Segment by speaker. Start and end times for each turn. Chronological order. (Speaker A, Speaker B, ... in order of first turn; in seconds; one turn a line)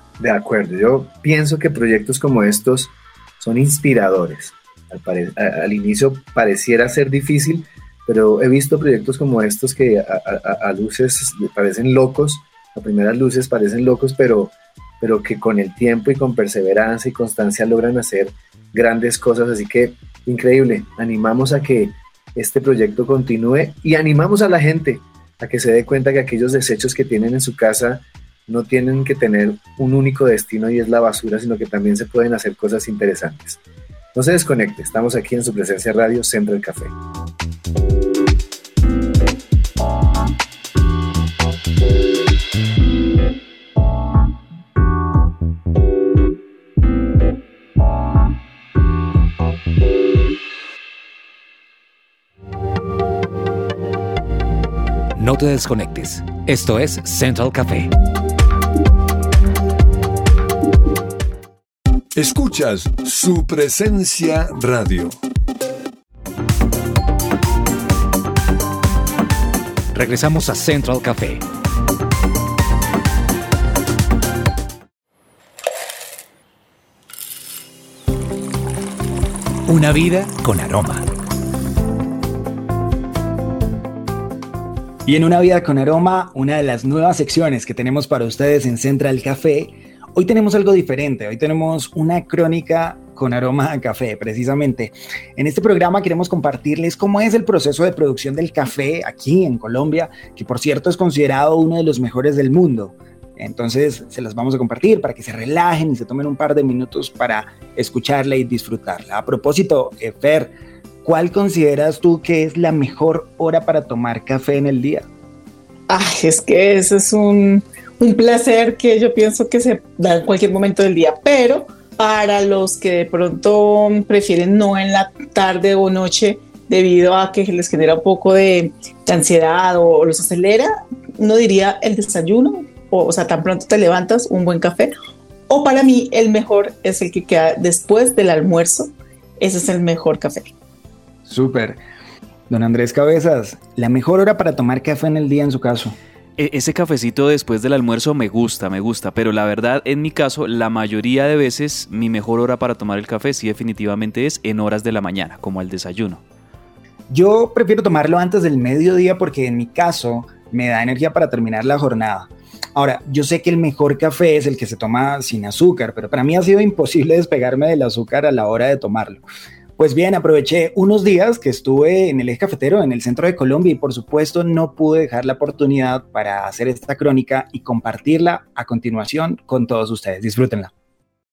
Speaker A: 0.2-33.6
Speaker A: 34.1-36.9
Speaker B: 55.1-57.9
Speaker C: 62.1-65.2
Speaker B: 69.9-71.4
Speaker B: 79.7-81.1
Speaker D: 85.0-110.5
Speaker D: 111.0-115.1
Speaker E: 115.9-134.9
Speaker E: 135.5-140.5
Speaker D: 141.3-141.8
Speaker D: 142.5-146.0
Speaker F: 146.4-156.2
Speaker D: 157.1-169.2
Speaker D: 169.8-180.7